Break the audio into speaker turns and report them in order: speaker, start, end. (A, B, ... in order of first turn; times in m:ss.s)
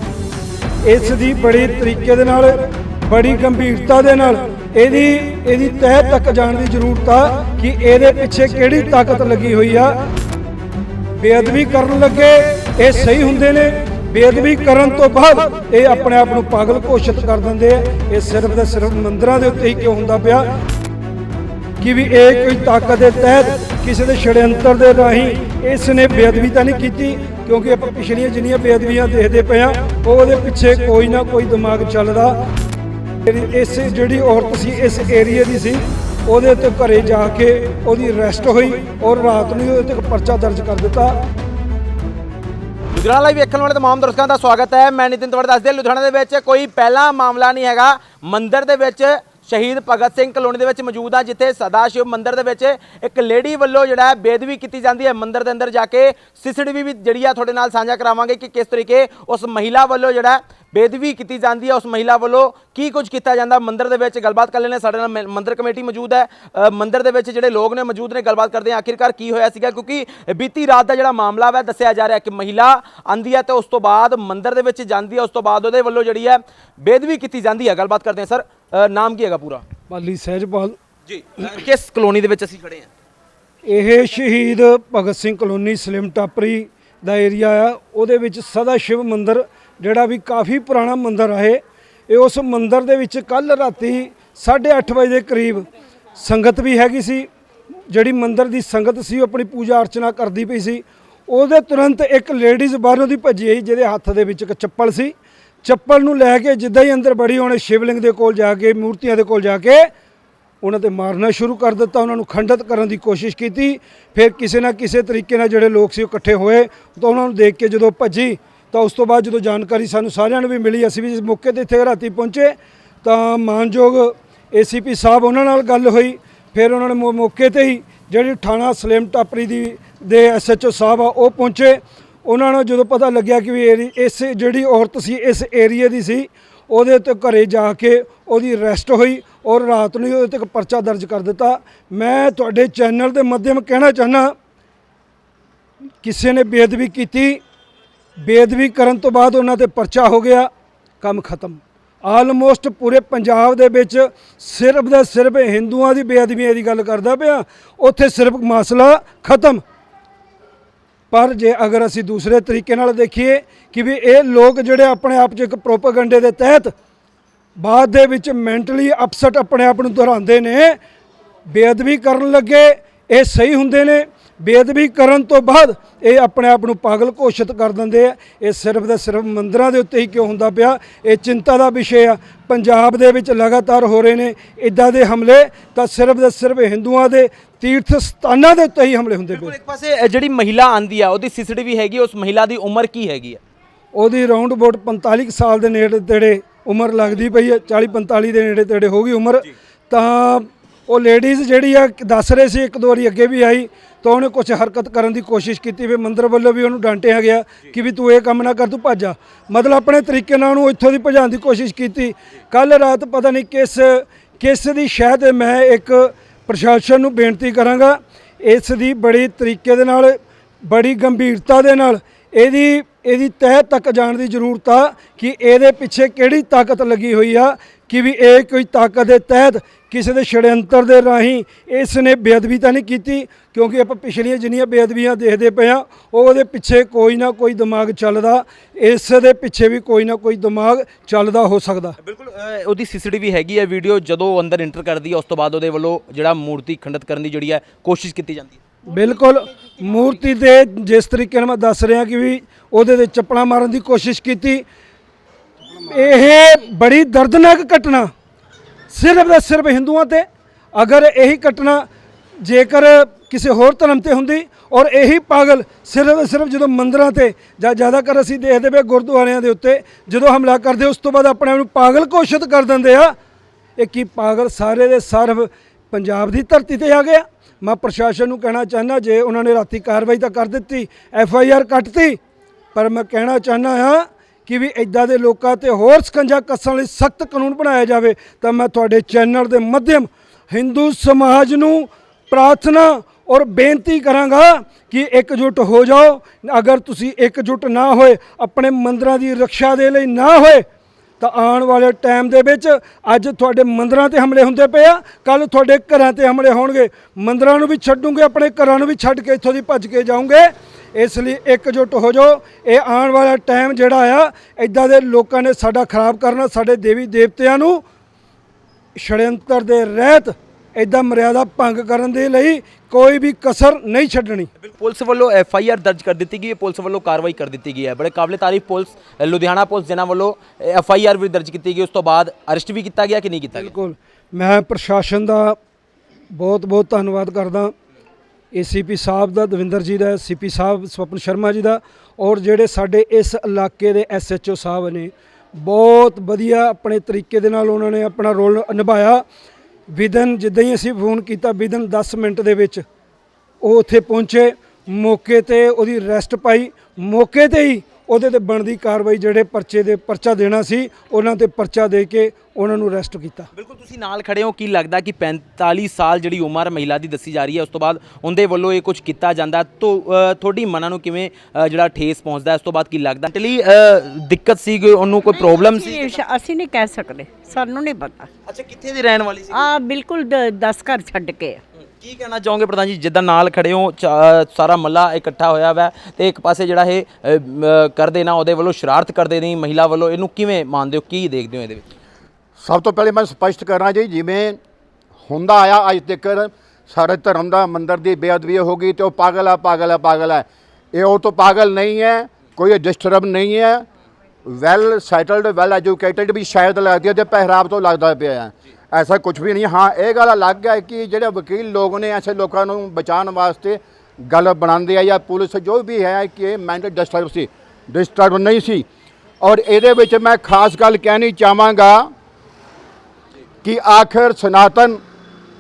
0:00.8-0:10.0 A
0:11.2-0:20.6 A
0:21.8-0:32.4 A
0:33.2-0:41.2 A
0:42.9-1:19.6 B
1:19.9-1:20.8 A
1:21.1-1:22.9 B
1:23.6-1:37.3 A
1:37.9-1:49.9 A
1:50.6-2:24.3 A
2:26.0-2:27.4 A
2:28.2-2:30.5 A
2:31.0-2:39.6 A
2:41.1-2:46.7 A
2:47.6-2:50.8 A
2:51.5-3:09.5 A
3:09.3-3:13.4 B
3:13.9-4:02.0 A
4:02.0-4:08.6 B
4:08.9-4:14.6 A
4:15.8-4:18.1 A
4:18.9-4:21.9 A
4:22.4-4:33.1 A
4:33.8-4:42.2 A
4:42.8-5:00.6 A
5:01.2-5:17.8 A
5:19.0-5:24.5 A
5:24.6-5:33.7 B
5:33.6-5:35.6 A
5:36.3-5:37.7 A
5:38.5-5:49.2 A
5:49.9-5:52.8 A
5:53.6-6:03.5 A
6:03.6-6:16.2 B
6:15.3-6:18.3 C
6:18.5-6:19.7 B
6:19.5-6:21.6 C
6:22.0-6:31.9 B
6:32.6-6:34.6 D
6:35.2-6:43.9 D
6:44.4-6:58.9 D
6:59.4-7:02.1 D
7:03.6-7:05.0 D